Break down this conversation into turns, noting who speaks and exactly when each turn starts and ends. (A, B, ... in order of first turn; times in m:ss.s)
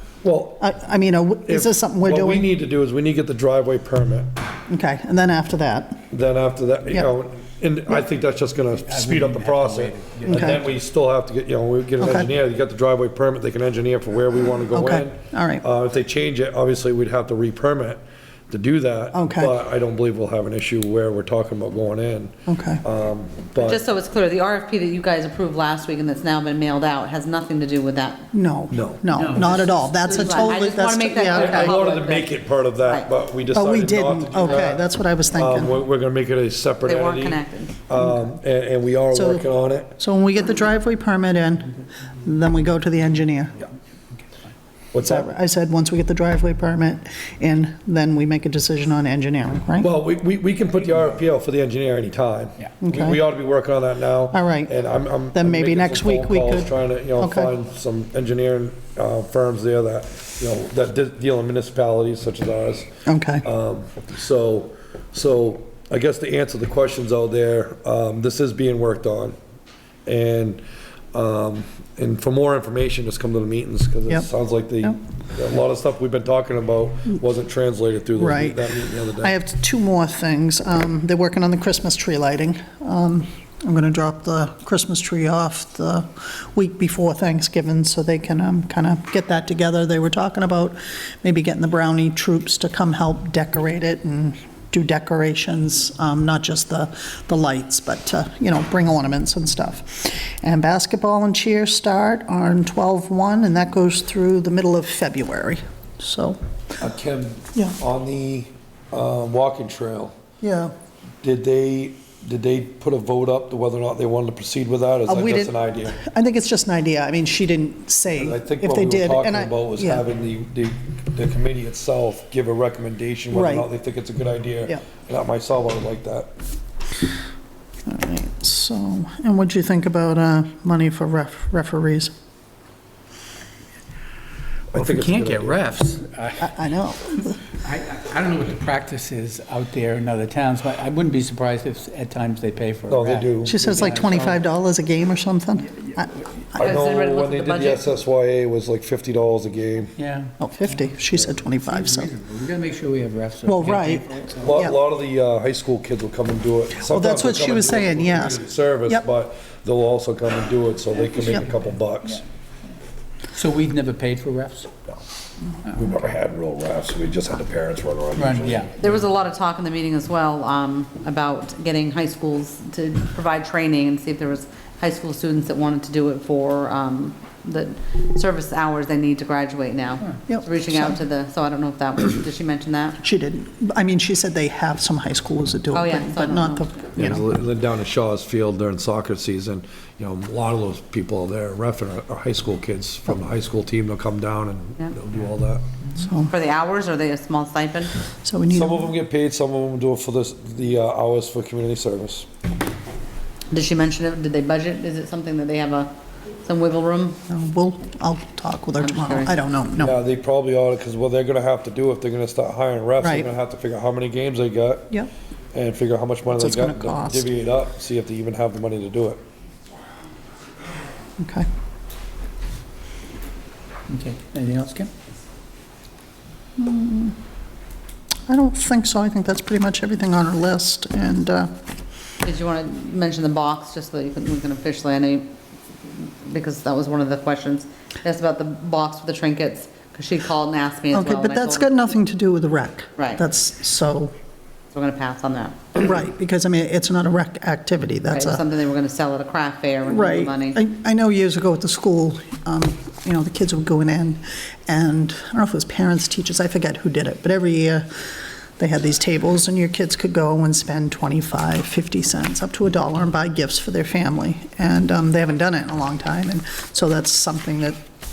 0:00.2-0:00.6 A
0:00.6-0:02.5 B
0:01.5-0:04.3 A
0:04.7-0:06.1 B
0:06.1-0:23.8 A
0:08.8-0:10.6 C
0:10.3-0:10.6 B
0:12.0-0:12.3 B
0:14.7-0:15.6 B
0:19.1-0:19.5 B
0:22.5-0:22.8 B
0:23.6-0:28.3 D
0:28.3-0:31.8 B
0:28.7-0:29.0 A
0:29.1-0:30.4 C
0:30.0-0:32.3 D
0:31.3-0:40.0 A
0:33.5-0:35.8 B
0:36.8-0:37.8 D
0:39.1-0:39.4 B
0:40.0-0:43.6 B
0:44.9-0:45.3 A
0:45.0-0:49.9 B
0:49.8-1:02.9 A
0:52.8-0:53.2 B
0:54.3-0:54.7 B
0:55.3-0:57.5 B
1:03.0-1:03.4 B
1:03.4-1:09.4 A
1:10.1-1:10.6 A
1:11.1-1:19.3 A
1:18.2-1:46.4 B
1:46.8-1:50.1 A
1:50.4-1:50.7 B
1:51.2-1:56.0 A
1:55.1-2:00.0 B
1:58.2-2:06.3 A
2:03.3-2:03.7 B
2:07.9-2:12.1 B
2:14.7-2:15.6 A
2:14.8-2:16.5 C
2:16.4-2:17.4 B
2:17.5-2:24.4 C
2:22.9-2:23.5 A
2:23.4-2:26.2 B
2:26.6-2:29.9 A
2:26.6-2:27.8 D
2:30.0-2:30.9 C
2:30.4-2:32.1 B
2:31.5-2:34.6 C
2:33.4-2:34.8 B
2:34.4-2:42.2 A
2:36.8-2:39.0 B
2:43.3-2:44.7 C
2:45.7-2:48.7 A
2:48.2-2:48.9 C
2:48.8-3:03.0 D
3:00.3-3:01.0 B
3:03.0-3:07.2 B
3:05.7-3:06.8 D
3:07.0-3:15.7 A
3:16.0-3:16.3 B
3:16.3-3:17.9 D
3:18.2-3:18.9 B
3:18.5-3:22.3 A
3:23.5-3:25.9 D
3:26.4-3:27.2 D
3:27.3-3:30.0 B
3:28.8-3:29.3 D
3:29.8-3:34.9 A
3:33.0-3:33.3 B
3:35.5-3:39.2 A
3:36.3-3:37.3 B
3:41.2-3:41.5 B
3:43.9-3:44.9 C
3:46.6-3:47.1 B
3:48.3-3:51.5 B
3:52.2-3:55.3 D
3:56.0-4:01.7 D
4:00.9-4:04.1 B
4:03.0-4:03.2 D
4:04.7-4:05.6 D
4:05.7-4:08.4 B
4:08.1-4:10.6 D
4:09.9-4:27.8 B